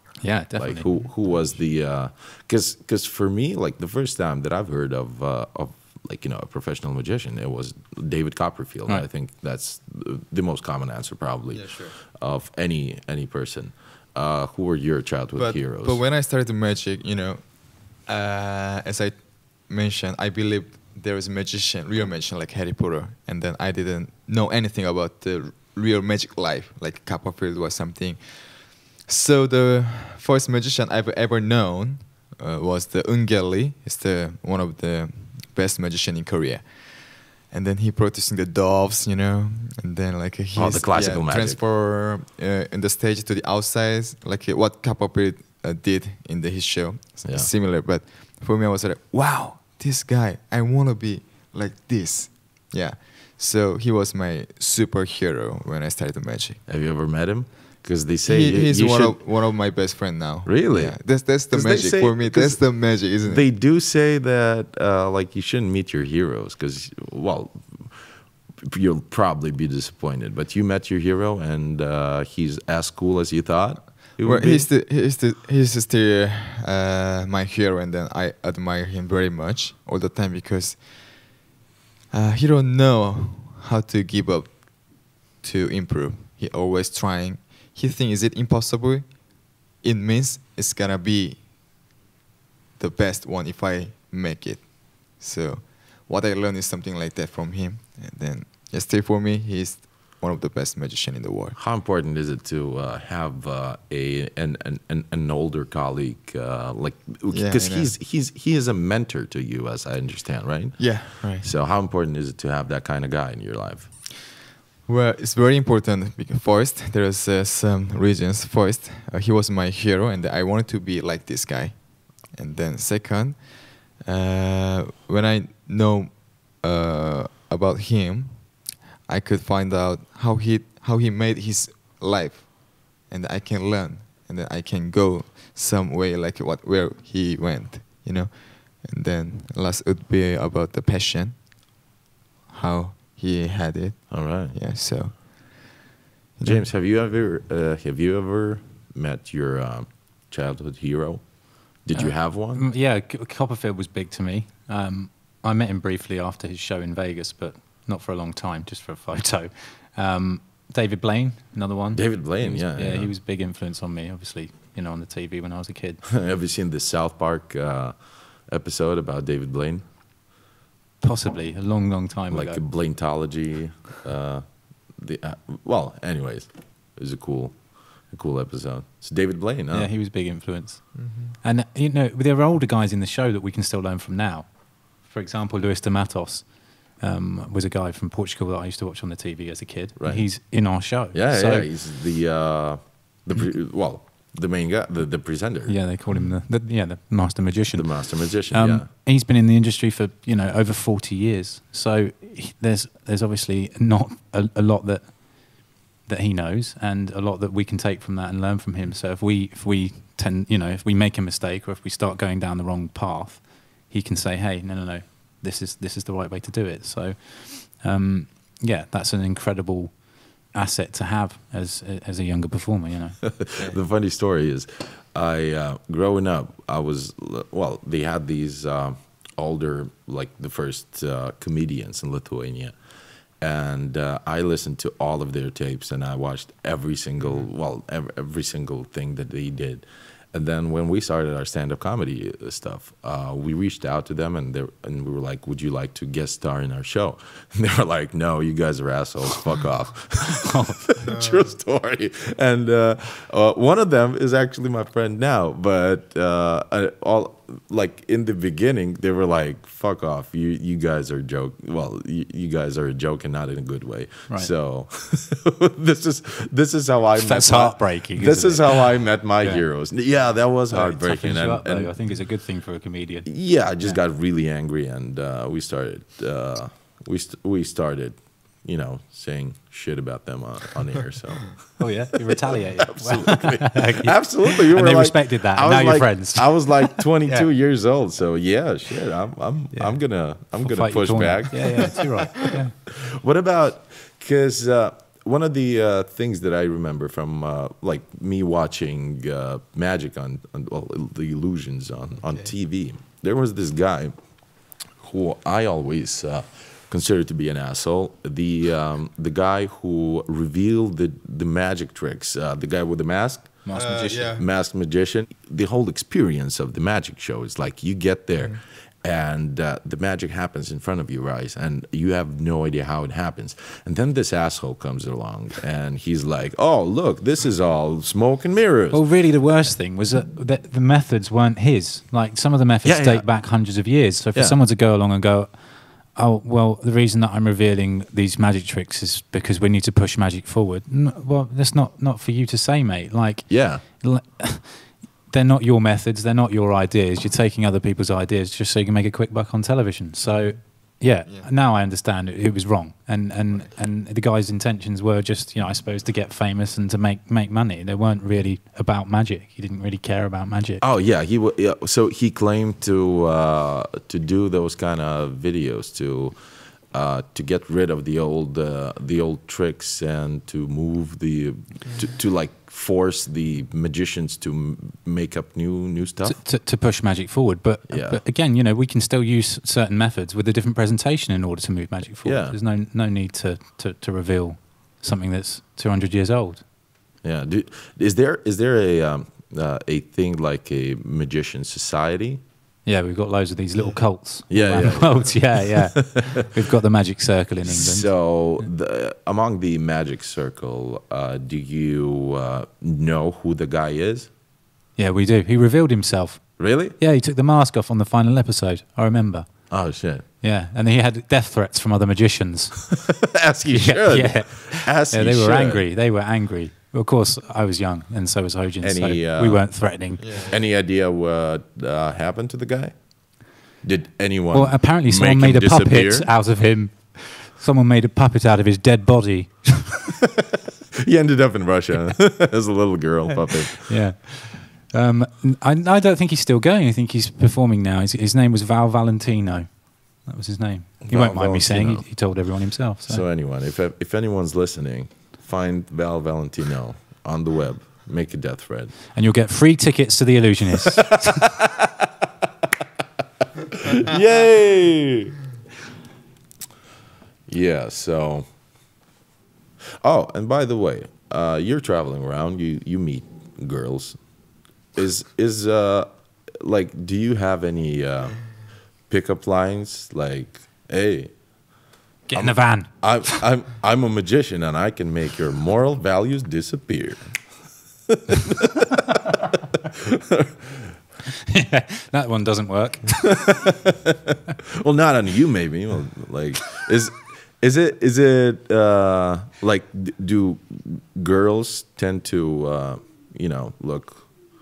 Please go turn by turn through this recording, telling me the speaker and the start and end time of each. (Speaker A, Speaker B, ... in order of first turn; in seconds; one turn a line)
Speaker A: 0.2-1.0
Speaker B: 0.6-16.0
Speaker C: 11.5-12.0
Speaker C: 15.4-56.6
Speaker B: 40.5-41.6
Speaker B: 47.2-47.5
Speaker B: 56.7-59.2
Speaker C: 58.2-63.4
Speaker B: 60.5-62.7
Speaker B: 63.2-68.0
Speaker B: 68.6-74.7
Speaker C: 74.2-81.3
Speaker C: 82.1-89.2
Speaker C: 89.8-91.4
Speaker C: 92.8-101.6
Speaker B: 101.6-113.9
Speaker C: 107.3-107.9
Speaker C: 110.8-111.5
Speaker C: 114.9-141.5
Speaker C: 142.5-145.8
Speaker B: 144.1-144.6
Speaker B: 146.4-152.6
Speaker A: 151.9-166.0
Speaker B: 161.9-163.1
Speaker B: 166.1-169.8
Speaker A: 171.0-172.6
Speaker B: 172.3-179.9
Speaker A: 179.7-191.7
Speaker C: 181.0-181.3
Speaker B: 190.0-190.3
Speaker B: 191.1-195.8
Speaker A: 195.7-223.2
Speaker B: 197.7-198.9
Speaker B: 223.2-232.8
Speaker B: 233.4-271.9
Speaker A: 250.2-250.9
Speaker C: 251.0-251.5
Speaker A: 267.2-269.6
Speaker A: 270.7-273.3
Speaker B: 273.3-281.6
Speaker A: 281.8-287.4
Speaker B: 282.2-292.3
Speaker A: 290.6-292.7
Speaker B: 292.9-304.1
Speaker B: 305.0-313.7
Speaker A: 313.6-314.4
Speaker C: 313.7-314.4
Speaker B: 314.4-329.0
Speaker A: 328.9-335.6
Speaker B: 332.8-333.3
Speaker A: 336.1-360.8
Speaker B: 343.5-343.8
Speaker B: 360.8-366.4
Speaker B: 366.9-376.4
Speaker A: 376.2-386.6
Speaker B: 377.9-378.2
Speaker B: 382.2-382.6
Speaker B: 387.2-392.4
Speaker A: 392.9-398.1
Speaker B: 394.5-396.5
Speaker B: 397.6-404.3
Speaker A: 405.0-409.6
Speaker B: 406.6-407.0
Speaker B: 409.7-410.2
Speaker A: 410.4-413.0
Speaker B: 412.9-415.8
Speaker A: 413.7-420.3
Speaker B: 418.8-419.7
Speaker C: 420.2-420.6
Speaker B: 420.5-423.1
Speaker B: 423.8-426.3
Speaker A: 424.5-430.1
Speaker B: 431.0-433.9
Speaker A: 433.9-443.2
Speaker B: 441.0-442.1
Speaker B: 443.1-448.9
Speaker A: 449.1-451.6
Speaker B: 451.3-452.1
Speaker B: 453.7-455.4
Speaker B: 457.5-458.5
Speaker B: 460.0-464.2
Speaker B: 465.0-468.4
Speaker B: 469.1-471.3
Speaker A: 472.3-473.4
Speaker B: 472.3-477.2
Speaker B: 478.1-479.2
Speaker B: 479.9-480.9
Speaker A: 481.3-483.6
Speaker B: 483.2-494.3